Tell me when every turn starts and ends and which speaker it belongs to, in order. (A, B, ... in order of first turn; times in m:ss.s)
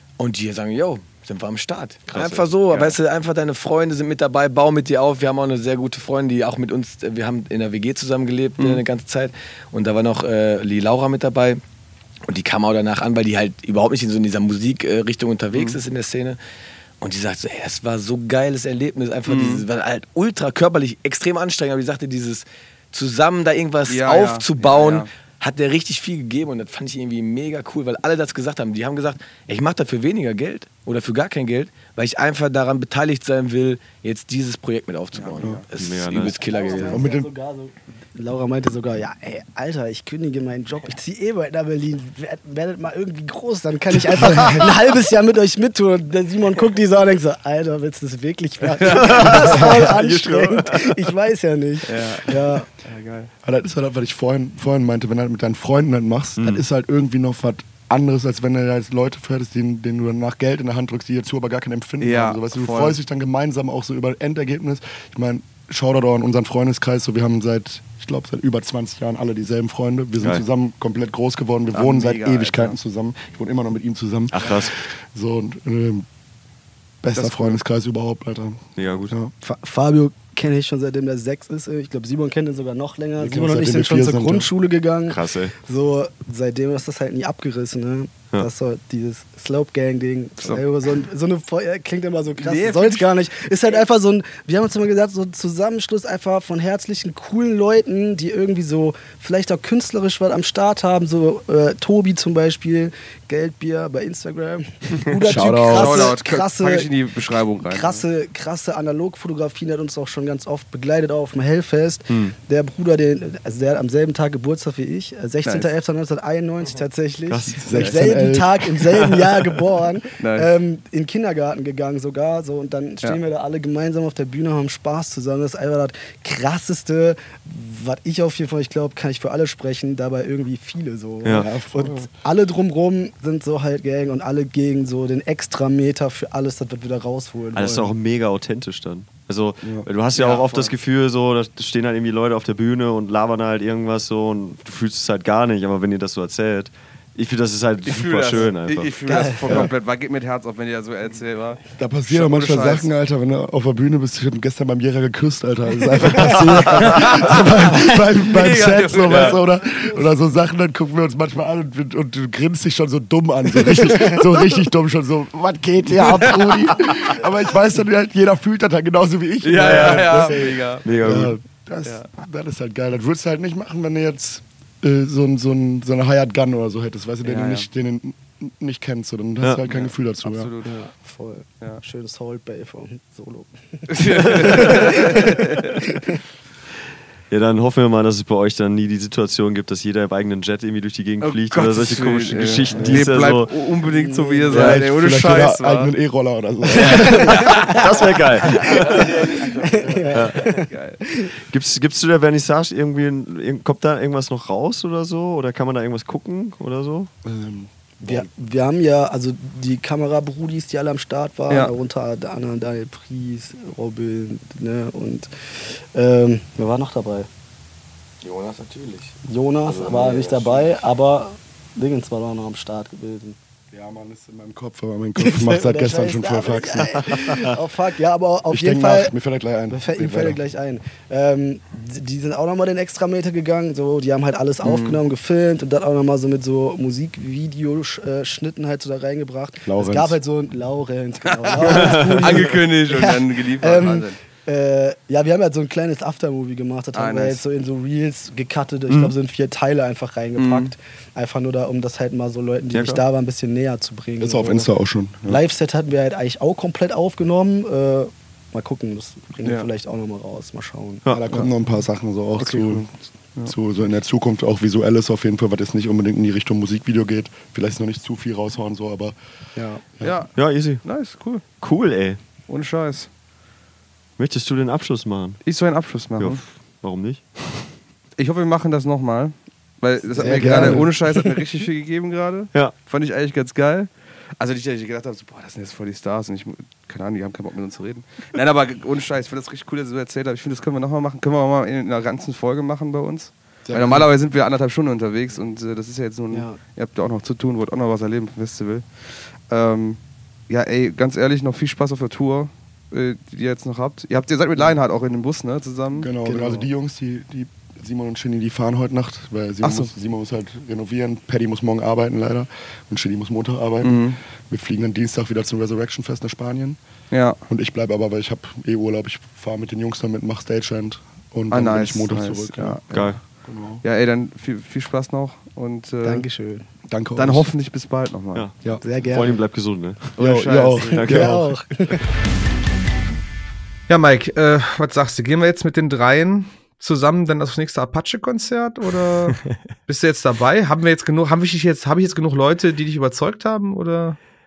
0:00.2-0:11.6 A
0:02.1-0:02.5 B
0:12.3-0:16.4 A
0:15.5-0:15.8 C
0:17.0-0:37.0 A
0:19.3-0:19.6 C
0:23.9-0:25.1 C
0:35.1-0:35.6 C
0:35.8-0:36.4 B
0:36.4-0:52.7 D
0:36.8-0:37.3 E
0:48.8-0:49.3 C
0:48.9-0:50.9 B
0:51.9-0:53.3 C
0:53.4-1:16.1 E
0:56.4-0:56.6 B
1:02.0-1:03.0 C
1:10.2-1:10.4 B
1:11.7-1:12.8 C
1:14.3-1:14.7 B
1:17.0-1:19.3 E
1:17.2-1:17.6 C
1:18.8-1:19.1 B
1:19.4-1:46.9 D
1:23.2-1:24.5 E
1:25.1-1:25.5 B
1:32.4-1:33.1 C
1:45.3-1:46.1 E
1:45.6-1:48.0 C
1:47.6-2:17.9 D
1:52.1-1:52.3 B
1:55.4-1:55.7 C
1:57.3-1:57.6 B
1:57.5-1:58.1 C
1:57.6-1:59.2 E
2:00.2-2:00.5 C
2:11.2-2:11.5 B
2:11.3-2:12.1 E
2:17.6-2:29.1 B
2:19.6-2:19.9 E
2:20.2-2:20.7 C
2:27.8-2:32.9 C
2:29.0-2:29.6 D
2:31.8-3:00.5 E
2:36.3-2:36.8 D
2:36.8-2:37.4 C
2:38.3-2:39.4 C
2:46.0-2:46.9 C
2:49.4-2:50.9 C
2:49.6-2:50.1 B
2:50.8-2:51.3 B
2:57.2-2:57.7 C
2:59.7-3:00.8 C
3:00.6-3:06.2 D
3:03.9-3:05.8 C
3:07.3-3:13.5 B
3:11.2-3:15.9 C
3:12.7-3:13.1 E
3:13.8-3:14.8 D
3:14.5-3:17.6 E
3:16.8-3:17.8 D
3:17.2-3:17.8 C
3:17.7-3:19.1 B
3:18.8-3:21.3 D
3:19.9-3:20.2 E
3:20.1-3:20.4 B
3:20.3-3:21.0 C
3:21.5-3:27.1 B
3:27.2-3:27.8 E
3:28.0-3:37.3 D
3:38.2-3:40.8 A
3:39.3-3:43.4 D
3:43.7-3:47.3 E
3:45.2-3:49.1 D
3:48.5-3:50.4 E
3:49.7-4:14.7 D
3:54.6-3:55.0 C
3:59.7-4:00.2 E
4:01.3-4:04.2 C
4:06.9-4:07.4 C
4:10.4-4:10.7 C
4:12.7-4:13.0 B
4:14.2-4:15.3 E
4:15.2-4:21.4 D
4:19.4-4:19.7 C
4:21.1-4:22.9 E
4:22.4-4:23.5 C
4:23.4-4:29.2 E
4:29.6-4:29.8 D
4:30.0-4:31.4 C
4:30.3-4:30.9 B
4:31.6-4:32.2 B
4:32.5-4:33.1 C
4:34.2-4:35.4 B
4:35.4-4:36.4 C
4:36.2-4:37.8 B
4:38.2-5:06.1 C
4:40.2-4:41.2 E
4:40.4-4:40.9 D
4:53.7-4:54.1 E
4:56.3-4:56.6 D
5:05.9-5:16.8 E
5:06.2-5:06.7 D
5:09.6-5:09.9 C
5:13.8-5:14.2 C
5:17.1-5:17.4 C
5:17.5-5:23.8 E
5:21.5-5:26.3 C
5:22.9-5:23.2 B
5:26.0-5:26.7 D
5:26.9-5:27.5 E
5:27.2-5:28.5 C
5:28.3-5:30.2 B
5:28.8-5:29.4 D
5:30.2-5:31.5 C
5:30.2-5:31.4 E
5:30.9-5:32.0 D
5:31.0-5:31.3 B
5:33.9-5:44.2 C